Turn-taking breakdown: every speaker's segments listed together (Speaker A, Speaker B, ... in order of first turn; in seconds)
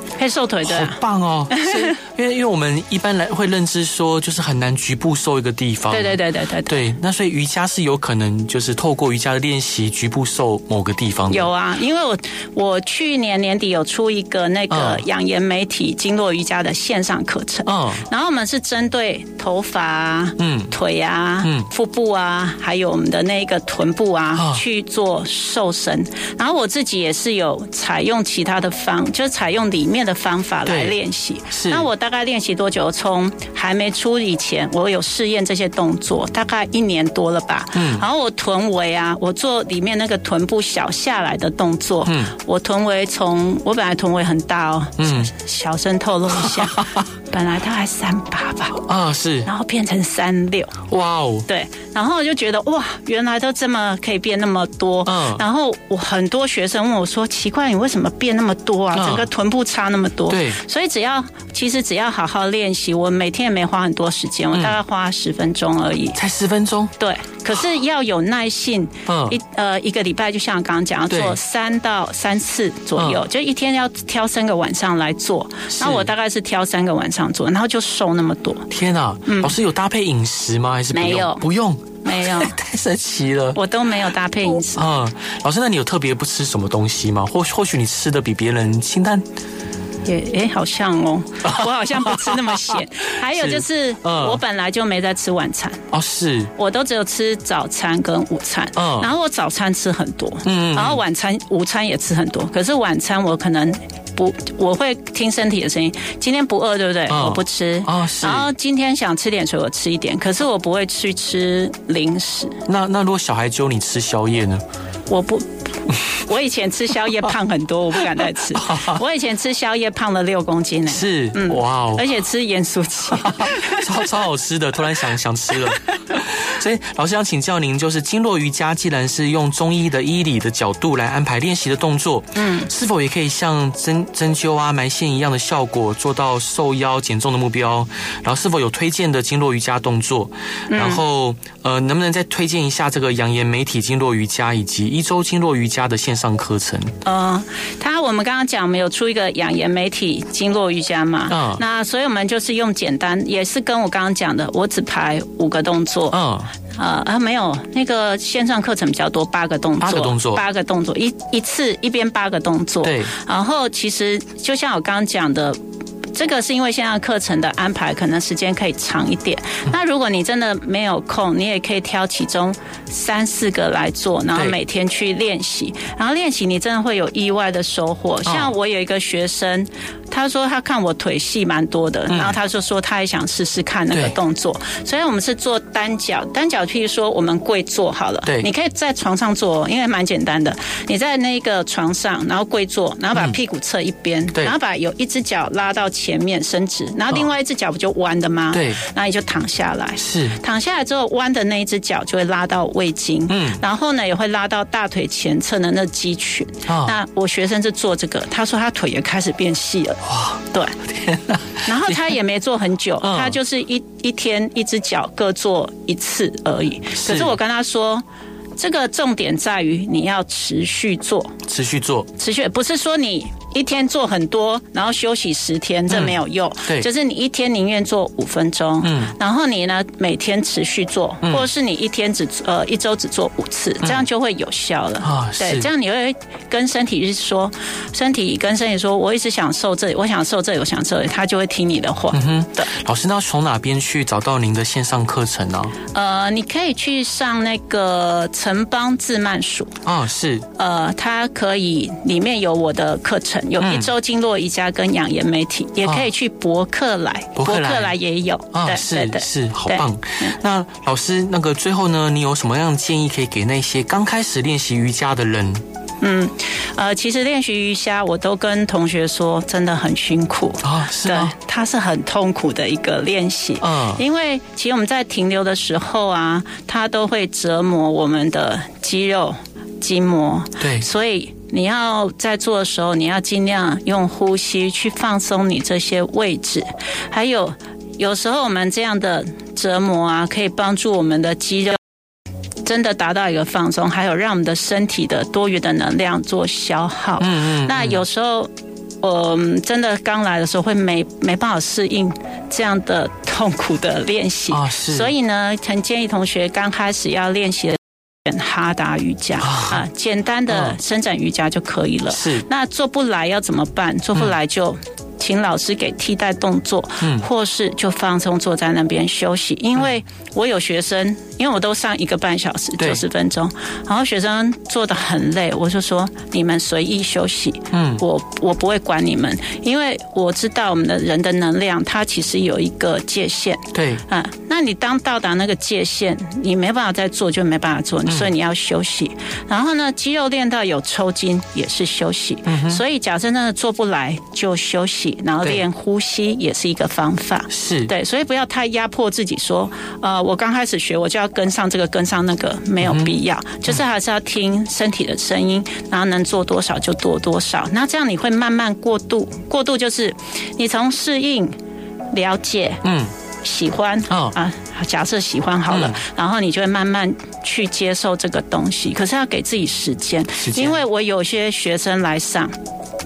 Speaker A: 0.2-1.9, 5.9-6.8, 11.3-48.8, 49.5-50.8, 51.5-66.2, 67.0-78.7, 79.2-79.5, 80.9-81.4, 82.0-82.5, 83.5-84.9, 90.0-95.9, 96.5-112.6, 115.1-115.5, 116.1-124.0, 132.4-132.7, 140.7-141.0, 147.0-156.2, 156.7-165.6, 166.1-210.8, 211.6-218.0, 218.6-221.4, 222.2-242.7, 245.9-249.8, 250.6-260.3, 266.0-291.8, 292.6-298.5, 299.0-361.5, 362.1-362.8, 363.4-372.5
Speaker B: 0.6-11.5, 14.7-15.0, 17.6-18.1, 20.4-20.7, 21.4-21.7, 24.4-24.6, 30.6-30.9, 31.5-31.9, 37.7-38.0, 42.0-42.3, 45.0-45.3, 46.4-47.0, 48.8-49.5, 50.9-51.5, 55.0-55.4, 58.9-59.2, 60.3-60.6, 66.1-66.9, 69.1-69.4, 71.1-71.4, 73.0-73.2, 75.7-76.1, 78.7-83.6, 84.7-89.2, 91.4-94.4, 95.9-96.5, 98.8-99.1, 100.4-101.0, 107.1-108.5, 112.7-114.6, 118.3-119.0, 120.9-122.1, 123.1-146.9, 151.3-151.6, 156.1-156.5, 159.8-160.4, 162.8-163.1, 178.2-178.5, 182.1-182.4, 198.5-198.8, 200.0-200.4, 203.3-203.6, 206.7-207.0, 210.1-212.0, 213.0-213.4, 216.9-217.3, 221.5-222.1, 225.9-226.9, 228.8-229.1, 235.0-235.7, 242.1-245.7, 249.8-250.5, 253.6-253.9, 257.3-257.9, 258.5-265.6, 270.6-271.3, 273.6-274.0, 280.6-280.9, 297.2-298.0, 304.5-305.1, 309.4-309.8, 310.5-310.8, 312.1-312.4, 317.0-317.3, 327.7-328.0, 333.7-334.0, 342.4-342.8, 347.5-347.9, 352.8-353.1, 362.8-363.1, 364.1-364.4, 365.7-366.0, 370.4-370.8